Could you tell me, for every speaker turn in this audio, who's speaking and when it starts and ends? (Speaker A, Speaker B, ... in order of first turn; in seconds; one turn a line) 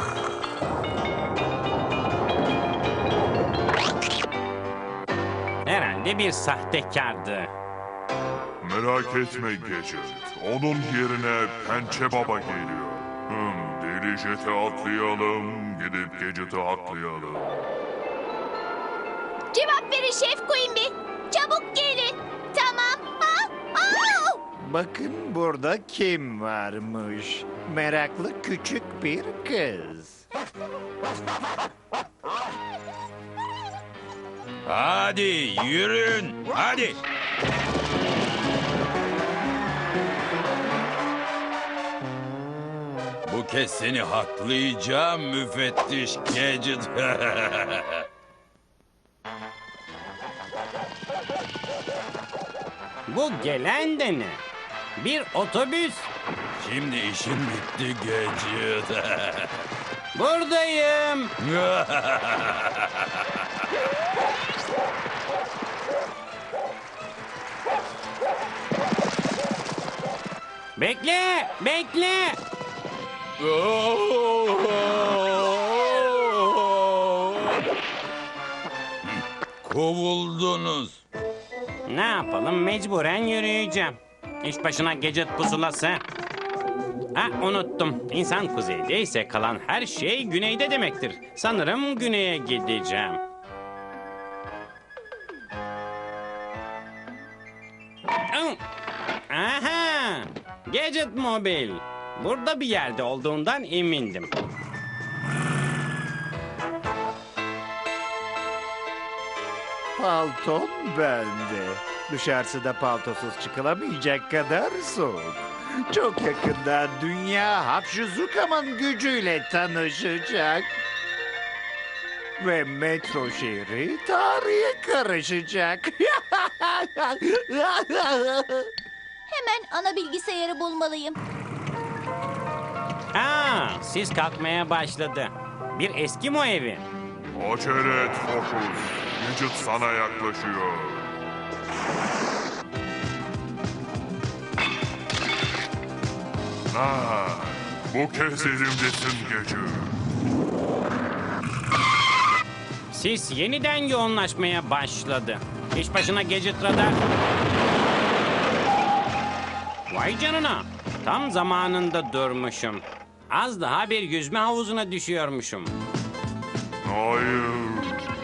Speaker A: 5.6-7.5
Speaker B: 8.6-17.7
Speaker C: 19.5-24.4
Speaker D: 24.6-30.2
Speaker E: 34.6-37.0
Speaker E: 43.2-48.0
Speaker A: 53.1-54.4
Speaker A: 55.0-56.1
Speaker E: 56.6-59.6
Speaker A: 60.1-61.3
Speaker E: 61.4-63.4
Speaker A: 70.8-72.4
Speaker E: 73.4-77.6
Speaker E: 79.0-81.0
Speaker A: 81.9-86.0
Speaker A: 87.1-93.2
Speaker A: 98.3-98.6
Speaker A: 99.3-104.3
Speaker D: 110.0-120.8
Speaker D: 122.4-128.7
Speaker C: 129.3-131.2
Speaker A: 133.1-136.8
Speaker B: 137.3-141.1
Speaker B: 146.7-150.0
Speaker A: 152.9-157.0
Speaker A: 159.9-165.7
Speaker B: 166.8-168.0